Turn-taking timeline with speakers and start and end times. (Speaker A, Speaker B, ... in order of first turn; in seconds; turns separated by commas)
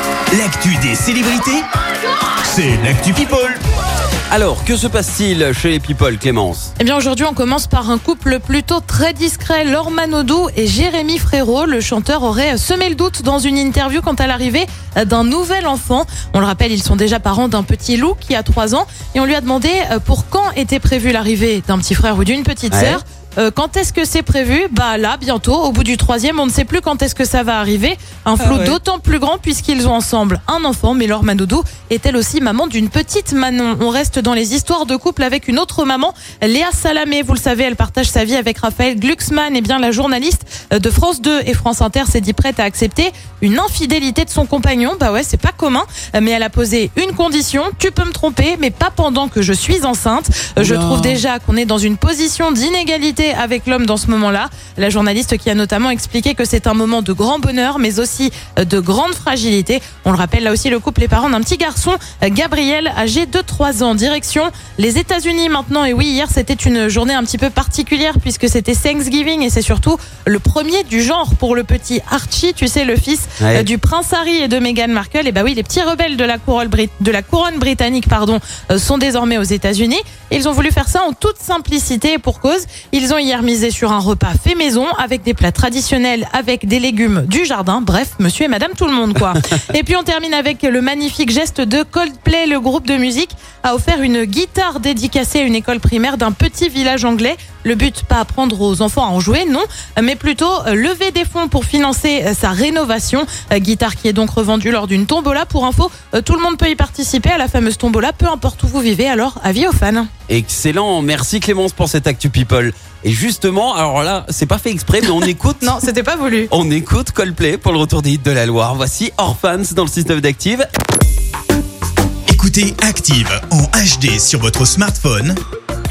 Speaker A: 0.3-1.6, Speaker A: 2.4-3.6, Speaker B: 4.3-6.7, Speaker C: 6.8-110.1, Speaker B: 22.7-23.0, Speaker B: 28.4-28.8, Speaker B: 50.5-51.2, Speaker B: 73.4-73.7, Speaker B: 110.3-115.7, Speaker C: 115.6-116.5, Speaker B: 116.5-120.7, Speaker A: 122.3-125.4